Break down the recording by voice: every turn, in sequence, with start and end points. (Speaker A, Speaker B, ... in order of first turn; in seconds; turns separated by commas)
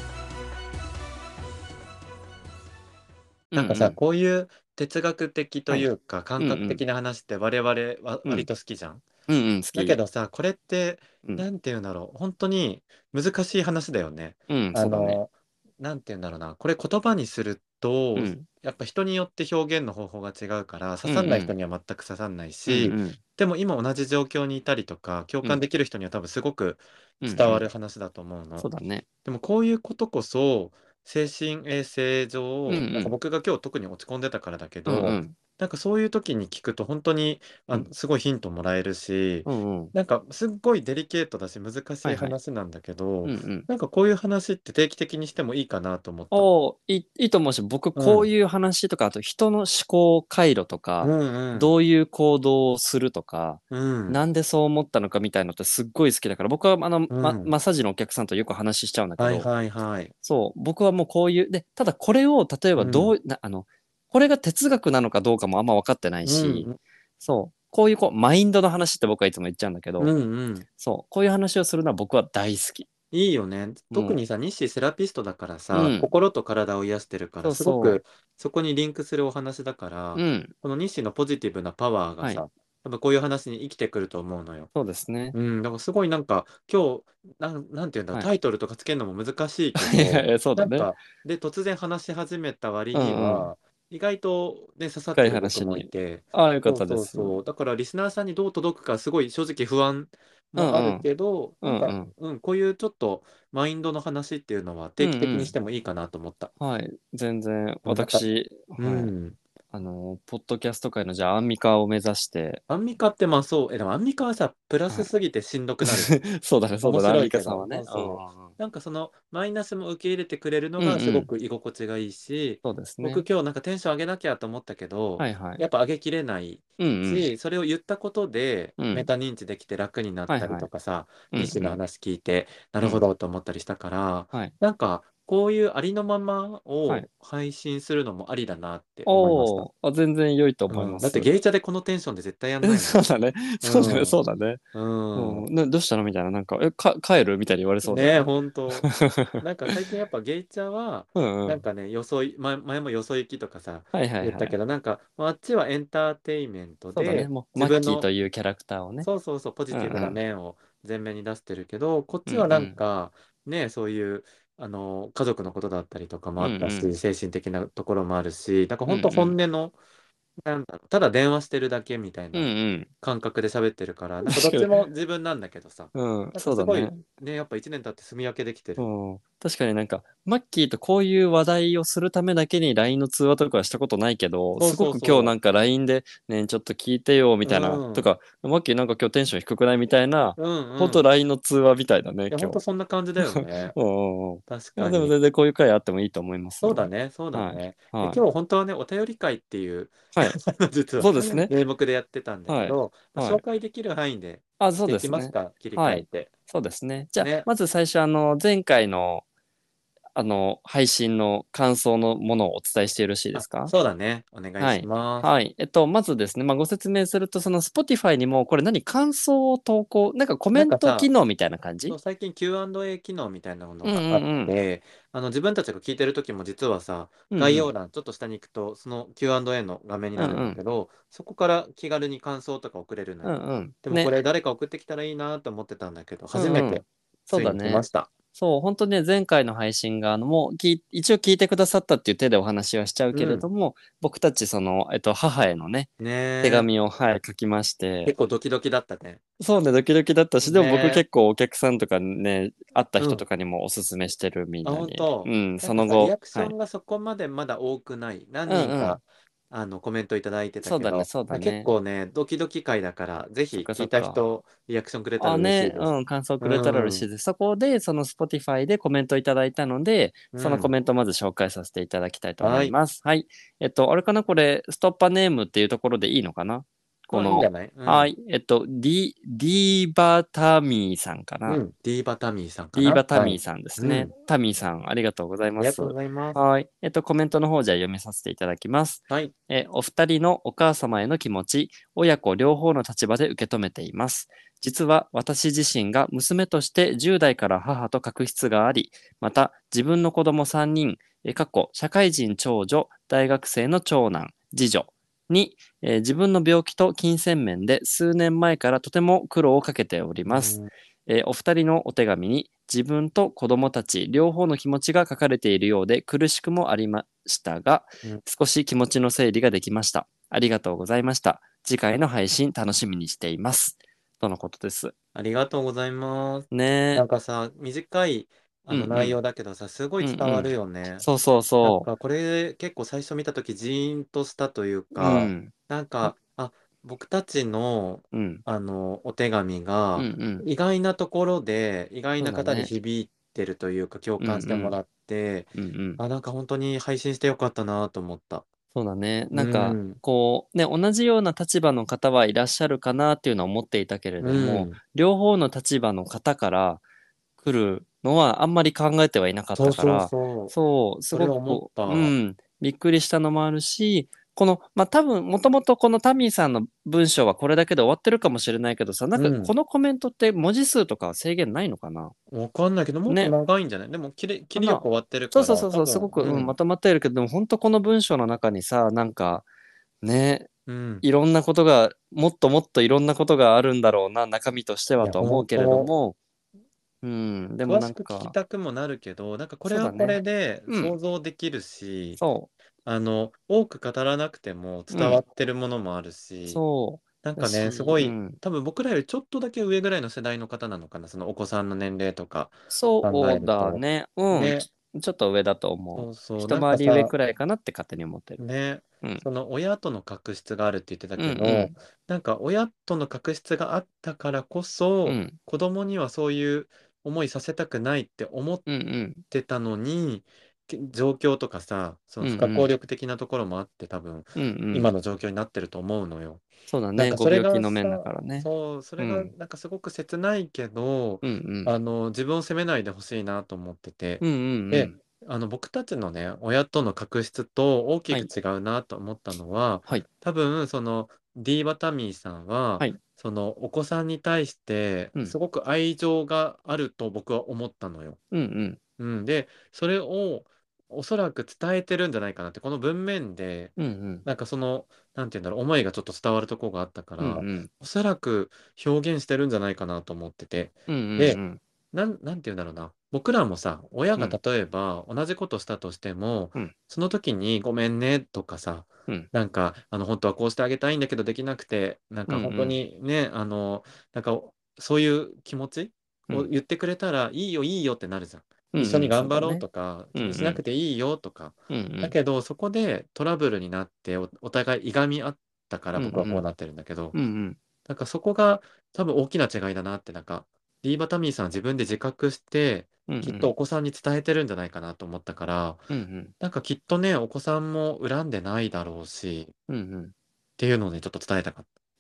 Speaker A: 3.5-4.0, Speaker B: 3.5-9.0, Speaker A: 5.7-6.8, Speaker A: 9.3-10.0, Speaker B: 9.7-28.7, Speaker A: 14.5-15.2, Speaker A: 18.2-18.5, Speaker A: 21.0-21.5, Speaker A: 22.7-23.2, Speaker A: 27.2-27.6, Speaker A: 28.6-29.1, Speaker B: 29.2-46.5, Speaker A: 32.7-33.1, Speaker A: 34.9-35.4, Speaker A: 39.5-39.9, Speaker A: 42.0-42.4, Speaker A: 43.2-43.7, Speaker A: 46.3-59.5, Speaker B: 48.0-48.3, Speaker B: 51.0-51.7, Speaker B: 53.7-54.2, Speaker B: 57.1-57.5, Speaker B: 59.2-60.1, Speaker A: 60.2-66.7, Speaker B: 62.8-63.1, Speaker B: 66.2-66.8, Speaker A: 67.2-70.1, Speaker B: 70.0-70.7, Speaker A: 70.8-72.9, Speaker B: 73.1-84.7, Speaker A: 73.9-74.2, Speaker A: 75.7-76.1, Speaker A: 77.4-78.0, Speaker A: 80.2-80.5, Speaker A: 84.8-85.4, Speaker B: 85.3-106.5, Speaker A: 89.8-91.0, Speaker A: 92.9-93.5, Speaker A: 95.2-97.4, Speaker A: 100.6-101.1, Speaker A: 101.6-102.1, Speaker A: 105.0-105.5, Speaker A: 106.6-109.1, Speaker B: 107.8-108.2, Speaker B: 108.8-109.4, Speaker A: 109.7-112.6, Speaker B: 112.7-116.2, Speaker A: 115.8-118.5, Speaker B: 116.8-139.7, Speaker A: 120.8-121.3, Speaker A: 122.6-123.3, Speaker A: 125.2-125.6, Speaker A: 126.8-127.3, Speaker A: 128.8-129.1, Speaker A: 130.3-130.7, Speaker A: 131.3-131.8, Speaker A: 139.1-141.3, Speaker B: 140.7-143.0, Speaker A: 142.6-144.6, Speaker B: 143.6-144.2, Speaker B: 144.7-145.5, Speaker A: 145.1-149.8, Speaker B: 147.8-158.1, Speaker A: 151.2-151.6, Speaker A: 153.9-154.6, Speaker A: 156.9-159.1, Speaker B: 159.0-169.8, Speaker A: 159.7-160.2, Speaker A: 162.3-162.8, Speaker A: 166.4-166.9, Speaker A: 168.9-169.4, Speaker B: 170.4-178.8, Speaker A: 172.3-172.9, Speaker A: 174.2-174.7, Speaker A: 175.9-177.0, Speaker A: 178.8-192.6, Speaker B: 184.6-185.3, Speaker B: 187.4-188.1, Speaker B: 190.4-191.0, Speaker B: 192.3-193.8, Speaker A: 193.2-198.2, Speaker B: 194.5-195.2, Speaker B: 196.6-206.3, Speaker A: 201.0-201.5, Speaker A: 202.5-203.4, Speaker A: 204.6-209.2, Speaker B: 207.2-207.5, Speaker A: 210.2-213.7, Speaker B: 213.3-215.3, Speaker A: 214.6-222.0, Speaker B: 220.5-221.1, Speaker B: 221.9-238.1, Speaker A: 223.8-224.6, Speaker A: 227.3-227.7, Speaker A: 230.2-230.6, Speaker A: 233.2-234.1, Speaker A: 236.3-245.9, Speaker B: 243.1-243.5, Speaker B: 246.0-246.7, Speaker A: 246.4-248.1, Speaker B: 248.1-249.2, Speaker A: 249.4-256.5, Speaker B: 250.4-251.0, Speaker B: 253.0-253.2, Speaker B: 254.6-267.1, Speaker A: 258.5-259.0, Speaker A: 260.6-261.7, Speaker A: 263.6-264.2, Speaker A: 265.2-281.6, Speaker B: 270.3-270.7, Speaker B: 272.4-272.8, Speaker B: 277.1-278.1, Speaker B: 281.5-284.1, Speaker A: 282.8-324.9, Speaker B: 285.6-286.4, Speaker B: 310.3-310.7, Speaker B: 325.1-331.1, Speaker A: 326.5-327.1, Speaker A: 328.7-329.2, Speaker A: 330.0-331.9, Speaker B: 331.6-348.5, Speaker A: 335.0-335.5, Speaker A: 338.1-338.4, Speaker A: 340.0-340.5, Speaker A: 342.2-342.7, Speaker A: 344.2-344.8, Speaker A: 345.6-346.0, Speaker A: 348.7-356.8, Speaker B: 349.3-350.0, Speaker B: 354.2-354.8, Speaker A: 357.4-372.1, Speaker B: 359.6-360.5, Speaker B: 361.1-362.1, Speaker B: 369.2-369.5, Speaker B: 372.3-376.6, Speaker A: 373.1-373.3, Speaker A: 374.6-379.4, Speaker A: 380.0-380.5, Speaker B: 380.7-381.1, Speaker A: 381.0-386.2, Speaker B: 385.0-385.9, Speaker A: 387.0-388.4, Speaker B: 387.6-392.2, Speaker A: 389.6-390.9, Speaker A: 392.2-392.5, Speaker B: 392.9-396.6, Speaker A: 394.9-395.2, Speaker A: 396.5-398.4, Speaker B: 397.2-404.7, Speaker A: 402.7-408.4, Speaker B: 406.0-407.1, Speaker B: 408.4-418.7, Speaker A: 411.2-411.8, Speaker A: 415.1-415.4, Speaker A: 418.7-419.2, Speaker B: 419.3-448.2, Speaker A: 422.2-422.7, Speaker A: 424.4-424.9, Speaker A: 426.7-429.3, Speaker A: 431.2-431.7, Speaker A: 434.2-435.0, Speaker A: 448.3-448.8, Speaker B: 449.0-461.4, Speaker A: 453.8-454.2, Speaker A: 457.2-457.7, Speaker A: 460.9-461.6, Speaker B: 461.9-487.1, Speaker A: 472.3-472.8, Speaker A: 478.7-480.6, Speaker A: 481.7-482.2, Speaker A: 486.0-486.4, Speaker A: 487.1-487.6, Speaker B: 487.9-499.5, Speaker A: 493.1-493.5, Speaker A: 495.9-496.3, Speaker A: 499.7-500.1, Speaker B: 500.6-501.7